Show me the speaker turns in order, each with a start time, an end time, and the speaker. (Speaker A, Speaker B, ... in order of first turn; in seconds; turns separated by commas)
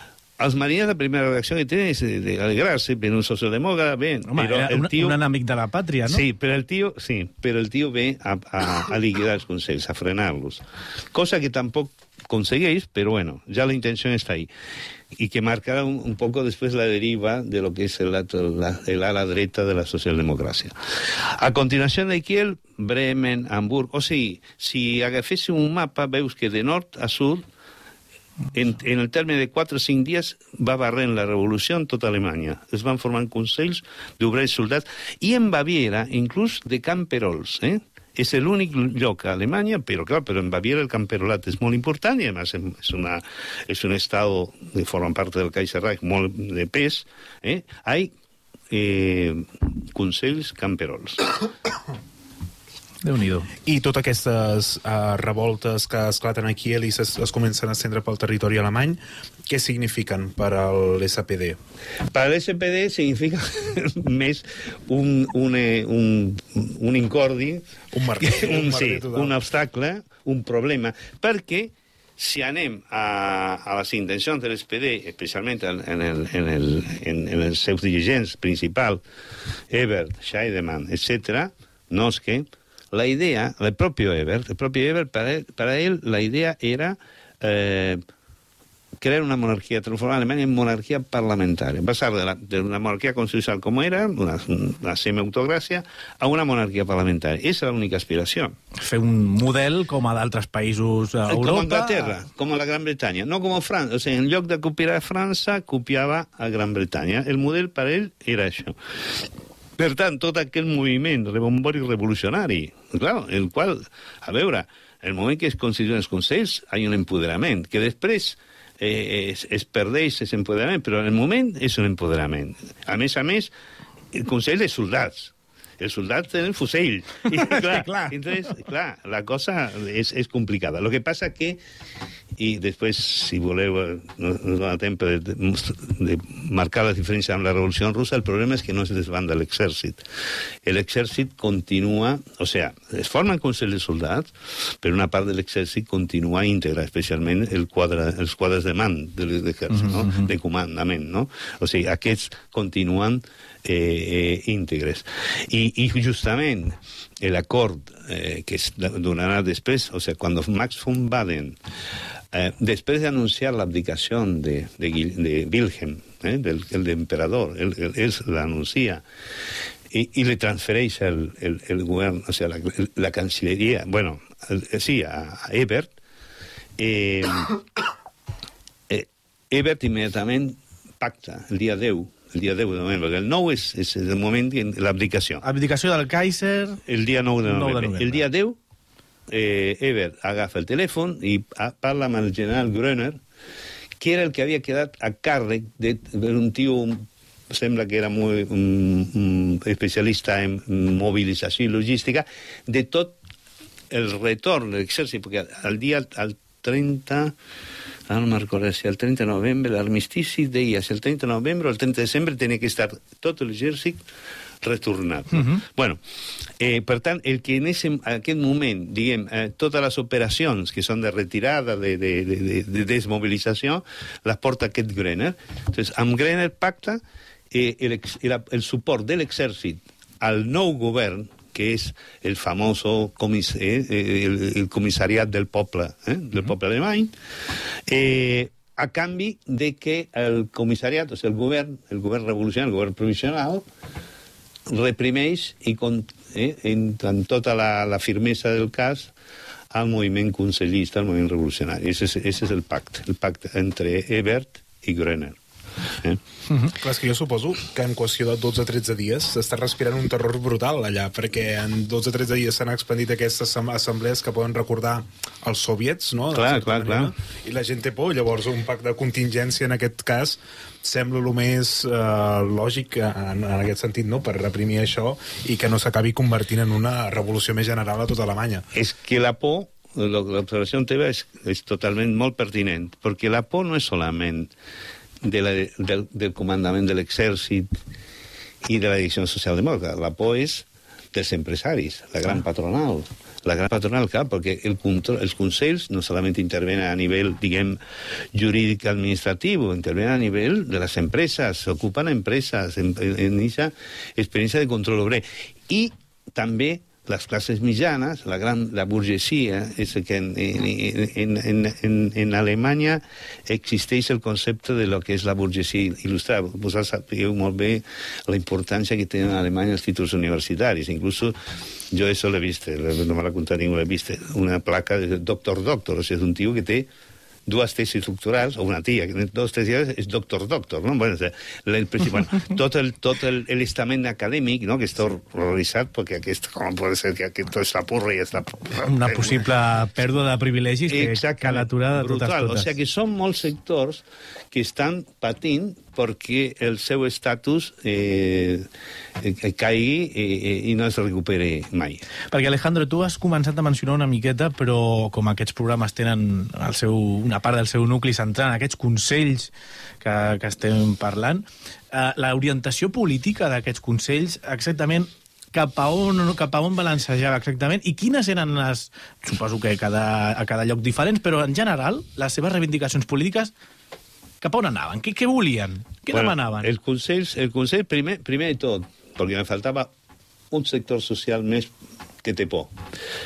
Speaker A: 0.4-5.2, Speaker B: 4.3-6.2, Speaker A: 6.0-14.5, Speaker A: 15.1-27.4, Speaker A: 28.5-48.1, Speaker A: 48.7-51.2, Speaker B: 53.0-53.5, Speaker C: 53.6-61.6, Speaker A: 62.1-67.6, Speaker C: 67.9-69.3, Speaker A: 68.2-79.0, Speaker A: 79.7-88.0, Speaker A: 89.0-98.5, Speaker B: 98.8-102.1, Speaker A: 101.3-108.8, Speaker A: 109.8-123.5, Speaker A: 124.1-131.6, Speaker B: 127.2-128.1, Speaker A: 132.4-140.0, Speaker A: 140.6-144.3, Speaker A: 144.8-161.6, Speaker B: 149.7-150.3, Speaker A: 162.3-169.0, Speaker A: 169.9-175.9, Speaker A: 176.8-177.6, Speaker A: 178.9-185.4, Speaker B: 185.4-186.8, Speaker A: 186.8-188.6, Speaker B: 187.5-188.2, Speaker A: 189.3-193.2, Speaker A: 194.0-203.2, Speaker A: 203.9-207.3, Speaker A: 208.1-214.0, Speaker A: 214.6-216.0, Speaker B: 215.3-215.6, Speaker A: 216.6-237.1, Speaker A: 237.9-243.7, Speaker A: 244.7-249.1, Speaker A: 249.7-255.4, Speaker C: 256.8-278.6, Speaker A: 266.3-267.1, Speaker A: 278.7-284.5, Speaker A: 285.2-287.7, Speaker A: 288.6-297.8, Speaker A: 298.3-321.3, Speaker A: 321.9-326.9, Speaker A: 327.4-339.4, Speaker B: 338.8-342.7, Speaker A: 340.9-348.7, Speaker A: 349.2-352.0, Speaker B: 352.3-373.5, Speaker B: 374.4-376.7, Speaker A: 376.1-379.9, Speaker A: 380.5-381.7, Speaker A: 382.2-382.7